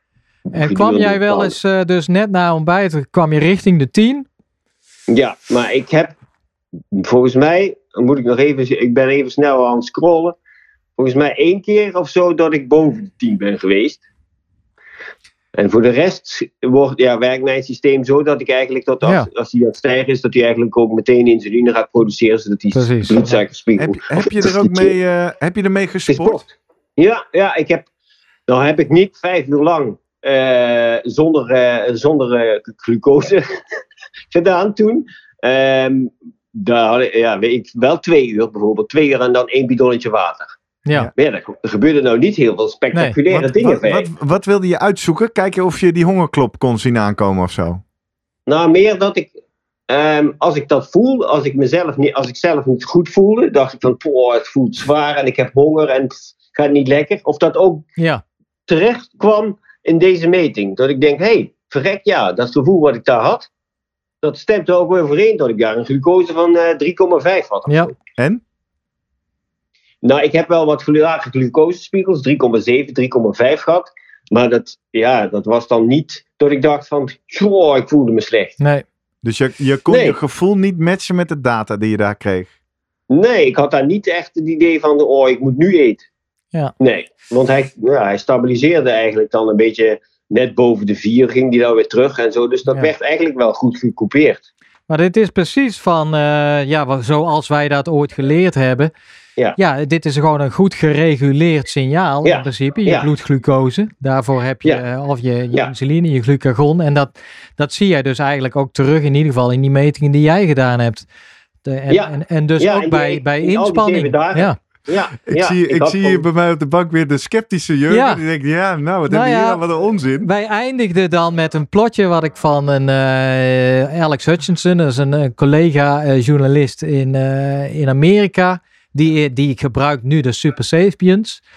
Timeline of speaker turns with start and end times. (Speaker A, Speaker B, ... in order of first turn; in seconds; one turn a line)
Speaker A: 0.5-1.6
Speaker B: 0.5-4.3
Speaker A: 5.1-6.2
Speaker A: 6.9-10.4
Speaker A: 11.0-14.0
Speaker A: 15.6-24.9
Speaker B: 22.7-23.4
Speaker C: 23.8-26.5
Speaker A: 26.1-27.9
Speaker A: 28.5-33.4
Speaker A: 34.3-40.5
Speaker B: 40.9-41.1
Speaker A: 41.1-44.1
Speaker C: 43.3-47.8
Speaker A: 48.5-49.3
Speaker A: 49.9-57.9
Speaker A: 58.7-63.5
Speaker A: 64.2-68.0
Speaker B: 67.7-67.9
Speaker C: 68.2-68.4
Speaker A: 70.0-78.6
Speaker C: 79.2-82.5
Speaker A: 79.9-80.2
Speaker A: 83.1-86.0
Speaker A: 86.8-94.4
Speaker B: 94.9-98.9
Speaker B: 99.6-111.1
Speaker A: 102.2-103.1
Speaker B: 111.6-114.6
Speaker A: 111.9-116.2
Speaker C: 115.3-120.3
Speaker B: 117.9-118.2
Speaker B: 119.1-119.6
Speaker B: 120.2-131.4